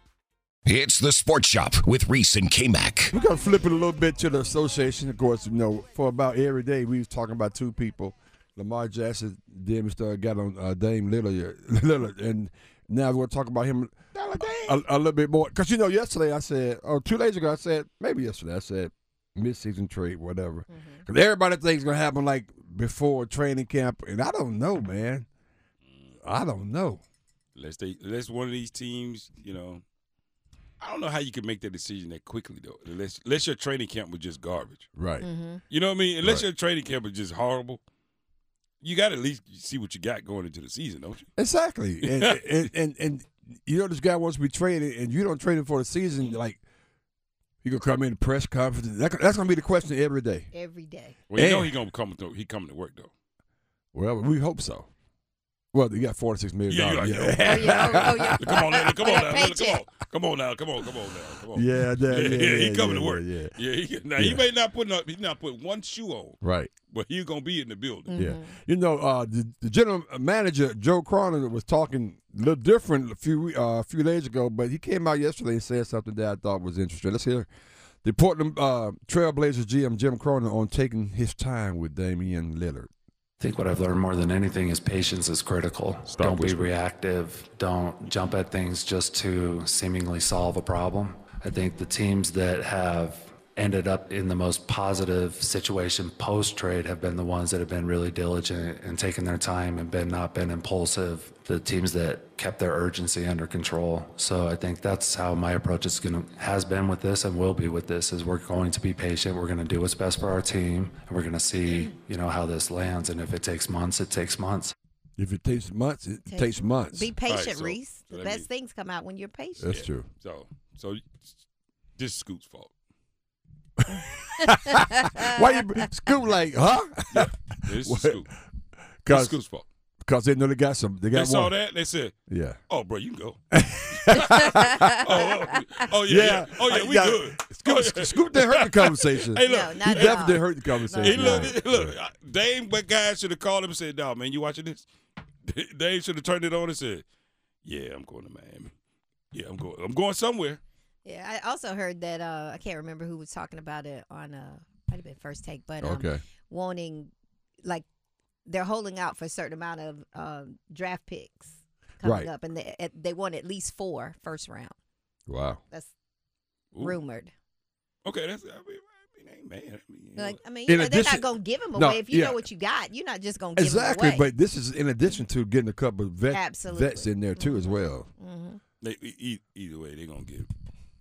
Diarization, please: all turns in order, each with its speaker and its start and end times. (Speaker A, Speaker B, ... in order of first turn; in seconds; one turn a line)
Speaker A: 0.6-3.1
Speaker B: 3.1-25.2
Speaker C: 14.2-14.8
Speaker D: 20.7-21.0
Speaker B: 26.2-27.0
Speaker C: 27.5-29.8
Speaker C: 30.8-34.9
Speaker B: 34.9-35.3
Speaker D: 35.2-35.6
Speaker C: 35.7-37.8
Speaker C: 38.8-41.3
Speaker B: 41.4-46.6
Speaker C: 42.0-42.4
Speaker B: 47.6-50.5
Speaker D: 50.5-51.2
Speaker C: 51.3-53.1
Speaker B: 51.3-51.8
Speaker B: 53.9-54.9
Speaker B: 55.7-58.7
Speaker C: 56.7-68.2
Speaker D: 57.4-59.8
Speaker B: 61.5-63.5
Speaker B: 64.2-64.4
Speaker B: 66.4-66.7
Speaker D: 68.1-68.5
Speaker B: 68.1-77.5
Speaker B: 78.0-82.9
Speaker E: 83.4-114.7
Speaker C: 86.1-86.7
Speaker B: 115.2-117.1
Speaker D: 116.3-119.7
Speaker C: 117.3-118.5
Speaker B: 119.6-120.1
Speaker C: 119.7-121.4
Speaker C: 122.0-122.7
Speaker B: 123.8-128.2
Speaker D: 124.4-125.6
Speaker C: 127.1-128.3
Speaker B: 129.0-129.4
Speaker C: 129.1-129.7
Speaker B: 130.0-131.5
Speaker C: 131.1-132.1
Speaker B: 132.3-132.6
Speaker C: 132.7-133.4
Speaker B: 133.5-135.1
Speaker C: 133.9-144.9
Speaker D: 134.4-134.9
Speaker B: 135.9-141.9
Speaker D: 139.4-141.6
Speaker C: 145.4-147.0
Speaker C: 147.6-148.7
Speaker C: 149.3-150.6
Speaker D: 151.0-157.1
Speaker B: 155.8-156.2
Speaker D: 158.5-164.7
Speaker B: 162.0-162.3
Speaker B: 165.3-165.6
Speaker C: 166.7-167.0
Speaker D: 166.8-167.3
Speaker C: 168.0-170.4
Speaker D: 170.2-174.3
Speaker B: 170.7-172.4
Speaker B: 173.6-178.1
Speaker D: 176.3-178.6
Speaker C: 178.8-180.5